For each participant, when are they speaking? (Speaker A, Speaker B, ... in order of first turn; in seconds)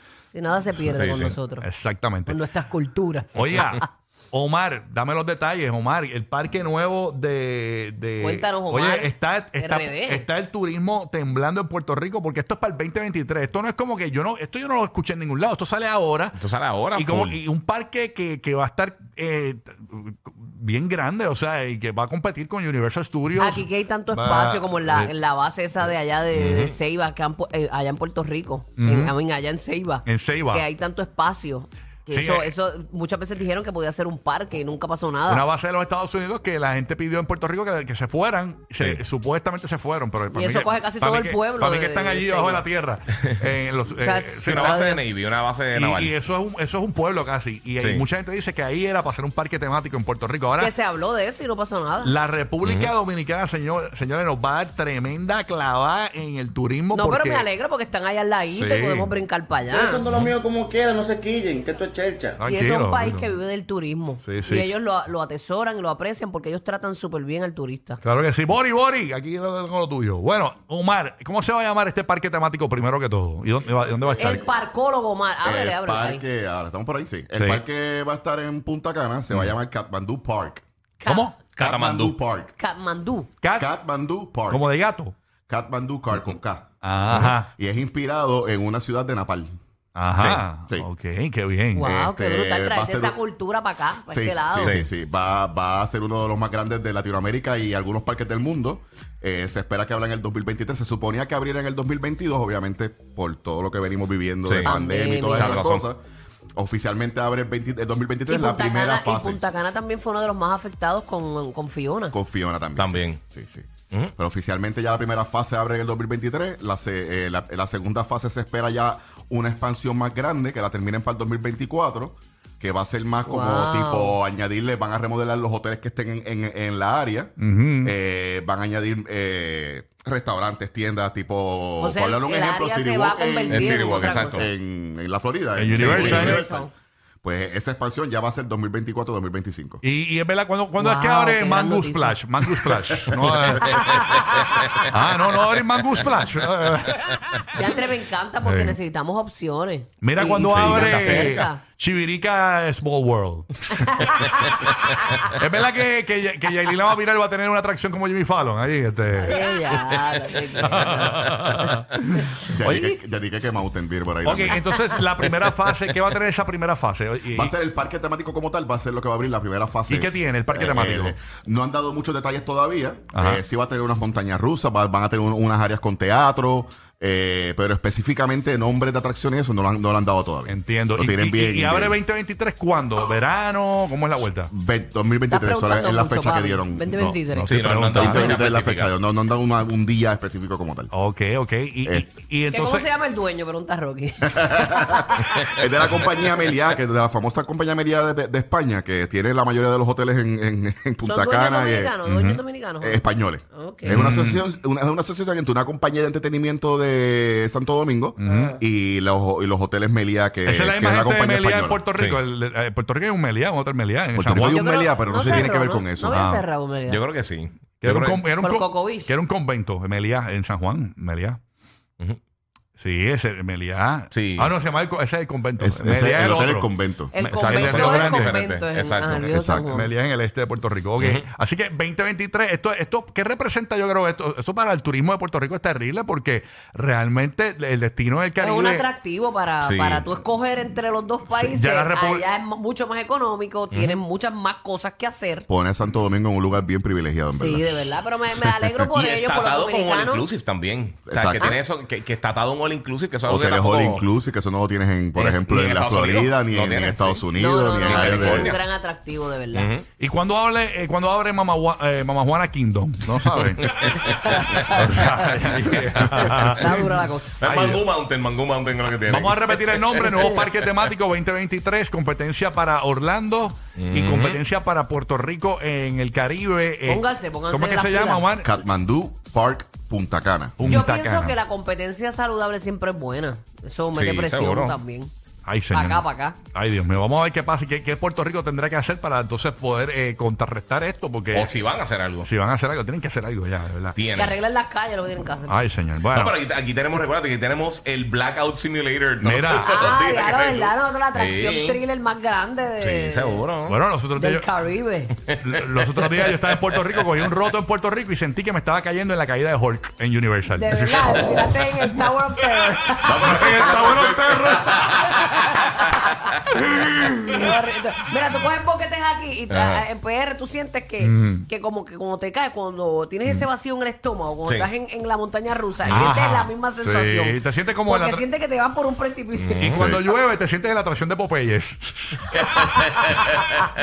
Speaker A: 0.3-1.6, 2.2-3.8, 8.2-10.3, 23.4-35.4, 40.3-42.6, 44.0-45.0, 50.6-52.1, 56.9-60.0, 62.5-68.0, 74.2-76.2, 81.0-81.3, 82.5-83.3, 91.7-94.8, 104.6-105.6, 108.3-112.1, 123.2-124.2, 131.8-134.5, 135.8-136.7, 140.8-142.7, 143.6-144.8, 147.6-151.6, 153.8-155.2, 159.2-161.3, 185.3-187.5, 192.5-195.5, 201.0-204.0, 208.3-208.5, 214.5-217.0, 218.4-219.1, 227.1-229.9, 238.4-245.5, 247.3-250.2, 257.3-259.7, 266.2-267.4, 276.9-278.2, 280.6-285.1, 285.7-286.4, 294.1-295.6, 299.5-303.4, 304.1-305.1, 310.5-313.9, 317.1-329.8, 332.8-333.2
Speaker B: 0.9-1.4, 16.4-17.4, 26.3-26.7, 44.5-46.1, 47.8-48.0, 52.6-52.9, 81.5-82.2, 90.2-90.4, 94.6-94.9, 104.4-104.7, 105.3-105.9, 112.8-113.2, 133.5-134.4, 135.8-136.3, 143.5-143.9, 144.5-144.8, 150.4-151.4, 187.5-188.9, 216.9-218.3, 224.1-224.6, 227.4-229.3, 231.0-231.2, 239.6-240.1, 243.7-244.0, 248.9-254.1, 255.1-257.2, 257.8-258.7, 259.5-259.9, 263.3-266.5, 267.4-270.7, 273.8-274.4, 283.9-284.8, 291.3-292.3, 293.9-294.4, 296.1-301.8, 302.8-303.8, 305.3-307.3, 313.0-316.1, 319.5-319.8, 324.4-324.7, 325.9-326.1, 329.3-329.9, 332.5-333.3
Speaker C: 0.9-2.4, 3.3-16.4, 16.9-25.1, 28.8-29.1, 30.1-30.6, 32.1-32.5, 35.3-44.8, 45.7-50.7, 52.0-57.5, 58.5-59.1, 62.4-63.3, 64.2-64.7, 68.0-74.4, 77.4-77.6, 81.0-81.4, 83.4-83.7, 84.5-85.1, 86.8-87.5, 90.0-91.9, 127.4-127.9, 135.5-136.4, 139.8-144.2, 144.9-147.7, 148.4-148.8, 150.0-154.3, 155.2-159.9, 160.6-163.0, 164.2-167.5, 169.9-171.2, 173.1-173.4, 180.5-184.5, 186.9-188.3, 190.9-192.9, 202.1-202.4, 203.8-204.4, 208.2-208.5, 210.5-214.6, 215.2-215.5, 216.0-216.4, 217.8-221.4, 222.8-228.4, 229.7-238.9, 241.3-242.2, 260.0-266.9, 267.4-267.8, 269.0-278.5, 280.6-281.4, 285.5-291.5, 292.2-294.0, 295.5-296.3, 299.2-299.8, 303.7-304.4, 305.4-311.4, 313.1-315.5, 316.9-317.3, 321.0-321.5, 325.9-328.2, 329.7-332.7
Speaker D: 59.7-62.4
Speaker E: 75.4-80.6, 81.6-82.5, 83.5-84.6, 85.5-89.6, 91.8-93.2, 94.1-106.0, 106.5-109.4, 112.1-136.7, 137.2-139.8, 162.5-164.7, 167.3-182.0, 184.2-186.8, 187.9-190.9, 194.4-202.0, 202.8-211.8, 214.2-216.2, 225.6-227.1, 229.3-229.7, 245.5-247.9, 251.1-251.6, 253.3-258.5, 278.4-280.8, 329.7-330.0